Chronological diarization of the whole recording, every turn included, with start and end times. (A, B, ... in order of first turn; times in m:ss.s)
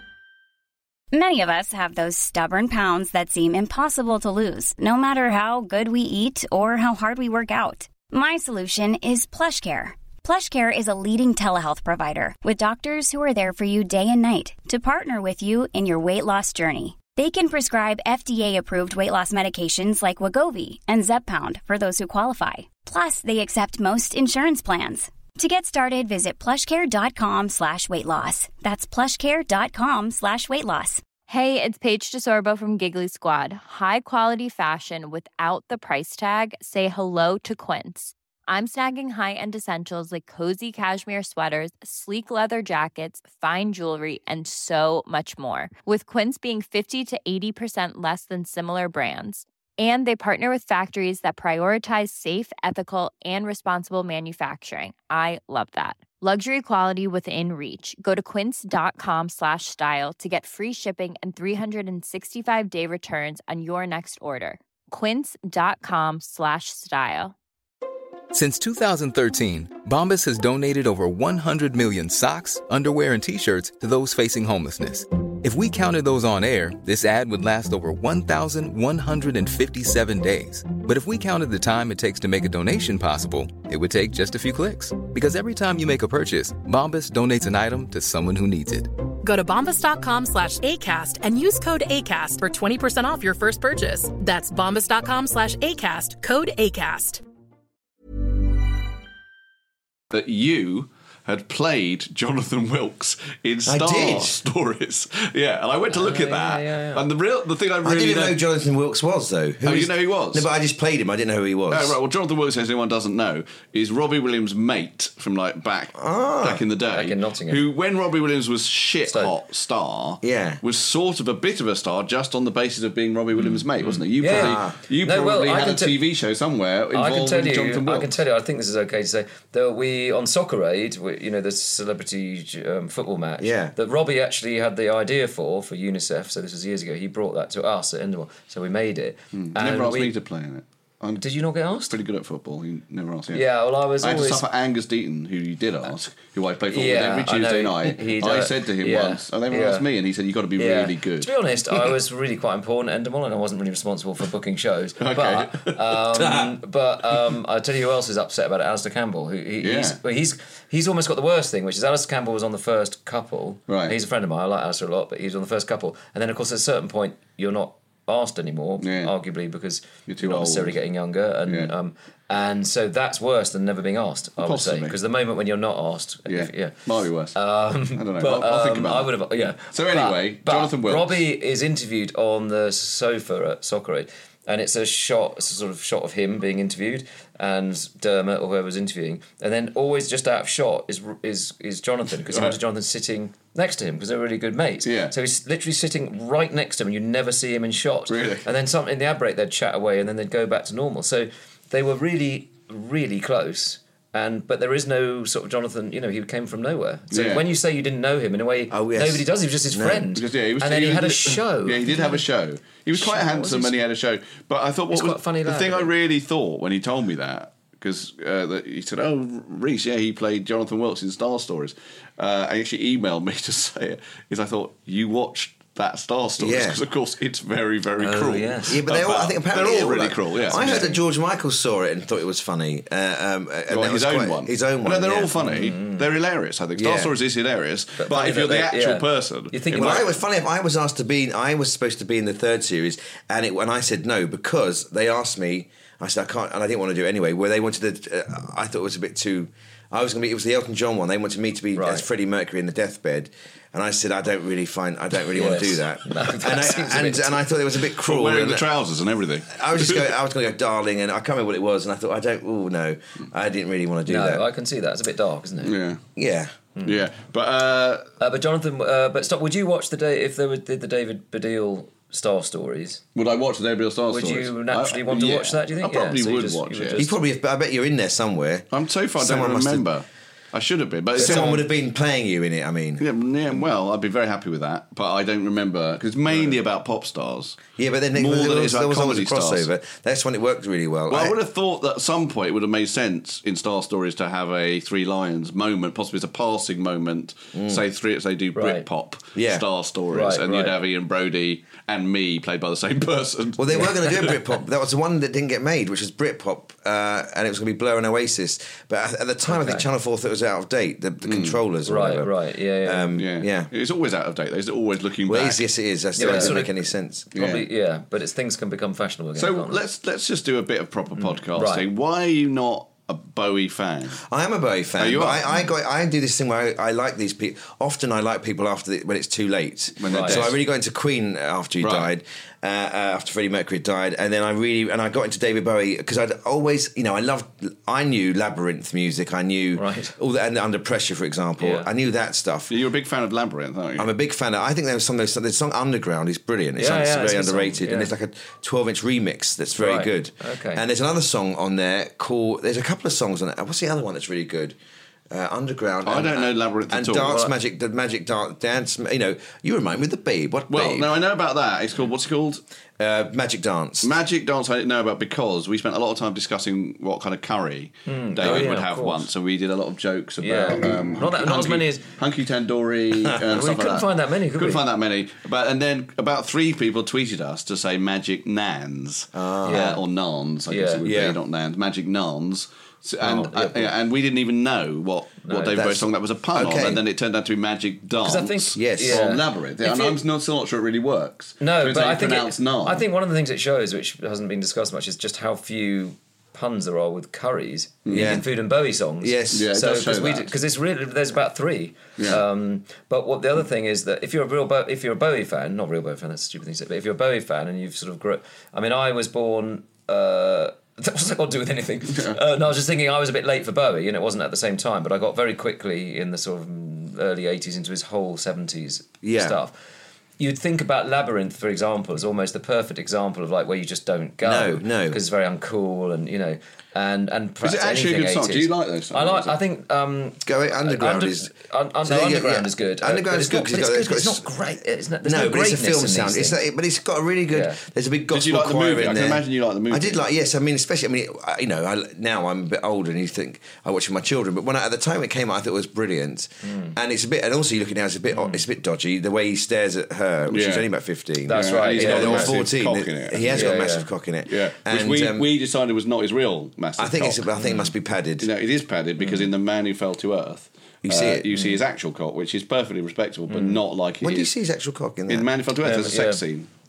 0:01.1-0:31.0 A
0:31.3-1:07.3 B
1:08.3-1:28.9 C
1:29.2-1:37.2 D
1:40.1-1:48.4 E
1:43.7-1:44.4 F
1:45.9-1:47.0 G
1:47.8-1:52.0 F
1:49.6-1:50.5 E
1:51.7-2:08.2 E
1:55.9-1:56.6 F
1:56.9-1:57.6 G
1:59.1-1:59.3 G
2:00.2-2:00.6 F
2:03.4-2:06.0 G
2:04.2-2:04.8 F
2:06.9-2:20.1 G
2:13.4-2:13.7 F
2:19.3-2:21.2 E
2:21.2-2:21.9 G
2:21.9-2:23.4 E
2:23.3-2:24.4 G
2:24.0-2:31.9 E
2:26.7-2:29.8 G
2:30.6-2:56.8 G
2:35.0-2:36.5 E
2:39.6-2:40.0 E
2:43.7-2:44.0 E
2:48.8-2:49.1 E
2:50.1-2:50.8 E
2:51.5-2:51.7 E
2:54.4-2:55.0 E
2:56.3-2:57.4 E
2:57.3-3:32.2 G
2:57.9-2:59.1 E
2:59.7-3:01.2 E
3:12.2-3:12.6 E
3:14.8-3:15.1 E
3:18.1-3:18.4 E
3:27.1-3:27.4 E
3:28.7-3:30.1 F
3:30.1-3:50.9 E
3:32.9-3:33.8 G
3:34.9-3:35.9 G
3:46.4-3:46.8 F
3:48.0-3:48.8 G
3:48.7-3:55.3 F
3:50.5-3:51.0 G
3:53.7-4:00.1 E
3:55.4-3:56.0 G
3:56.8-3:57.1 F
3:58.0-4:00.1 G
3:59.7-4:18.7 F
4:11.7-4:12.0 G
4:15.3-4:17.4 G
4:18.0-4:20.1 E
4:19.5-4:24.4 F
4:24.0-4:25.7 G
4:25.6-4:26.0 E
4:26.2-4:26.5 F
4:26.8-4:27.0 G
4:26.8-4:28.1 E
4:28.2-4:33.0 G
4:33.1-4:37.0 E
4:34.1-4:37.2 G
4:37.0-4:39.9 F
4:38.7-4:41.6 E
4:41.2-4:43.0 F
4:41.2-4:41.6 G
4:43.0-4:47.6 E
4:47.8-4:51.4 F
4:48.1-4:49.7 E
4:51.1-5:04.3 E
4:57.5-4:57.8 F
4:58.6-4:58.8 G
4:59.3-4:59.6 F
5:00.1-5:00.8 G
5:03.6-5:12.3 F
5:03.7-5:04.3 G
5:09.4-5:09.9 G
5:11.2-5:11.6 E
5:11.8-5:13.2 G
5:12.8-5:13.7 F
5:13.2-5:15.6 E
5:15.2-5:17.2 F
5:16.2-5:19.8 G
5:16.2-5:16.5 E
5:17.3-5:17.7 E
5:19.4-5:24.2 E
5:21.2-5:21.8 G
5:24.2-5:42.7 F
5:25.0-5:25.5 E
5:30.0-5:30.6 E
5:30.1-5:30.4 G
5:31.8-5:32.1 E
5:39.8-5:40.1 G
5:41.6-5:41.9 G
5:42.7-5:44.1 E
5:44.0-5:54.7 F
5:46.8-5:48.1 G
5:49.8-5:50.8 G
5:55.3-6:01.1 F
5:56.0-5:57.5 E
6:00.7-6:02.6 E
6:03.0-6:04.1 F
6:04.0-6:33.0 E
6:08.1-6:09.3 G
6:10.4-6:12.0 G
6:13.5-6:14.8 G
6:19.3-6:20.0 F
6:19.6-6:20.0 G
6:20.7-6:21.0 G
6:21.0-6:21.4 F
6:23.2-6:23.9 G
6:25.4-6:25.8 G
6:25.7-6:27.0 F
6:28.2-6:30.2 G
6:28.8-6:29.2 F
6:31.6-6:59.7 G
6:38.0-6:38.4 E
6:38.1-6:38.4 F
6:39.2-6:39.7 F
6:39.5-6:40.5 E
6:59.2-6:59.6 F
7:00.4-7:16.6 G
7:04.4-7:05.2 F
7:07.6-7:09.6 E
7:10.4-7:11.5 F
7:12.0-7:14.6 F
7:15.2-7:35.5 F
7:17.5-7:17.8 G
7:18.3-7:20.2 E
7:26.6-7:26.9 G
7:28.3-7:28.6 G
7:30.5-7:30.8 E
7:31.5-7:32.5 G
7:31.5-7:33.7 E
7:33.5-7:34.1 G
7:34.5-7:37.4 E
7:37.0-7:38.5 F
7:37.6-7:37.8 G
7:38.4-7:44.5 E
7:39.2-7:39.5 G
7:41.0-7:41.5 F
7:43.5-7:43.8 G
7:44.2-7:45.5 F
7:45.3-7:46.7 E
7:45.8-7:46.4 G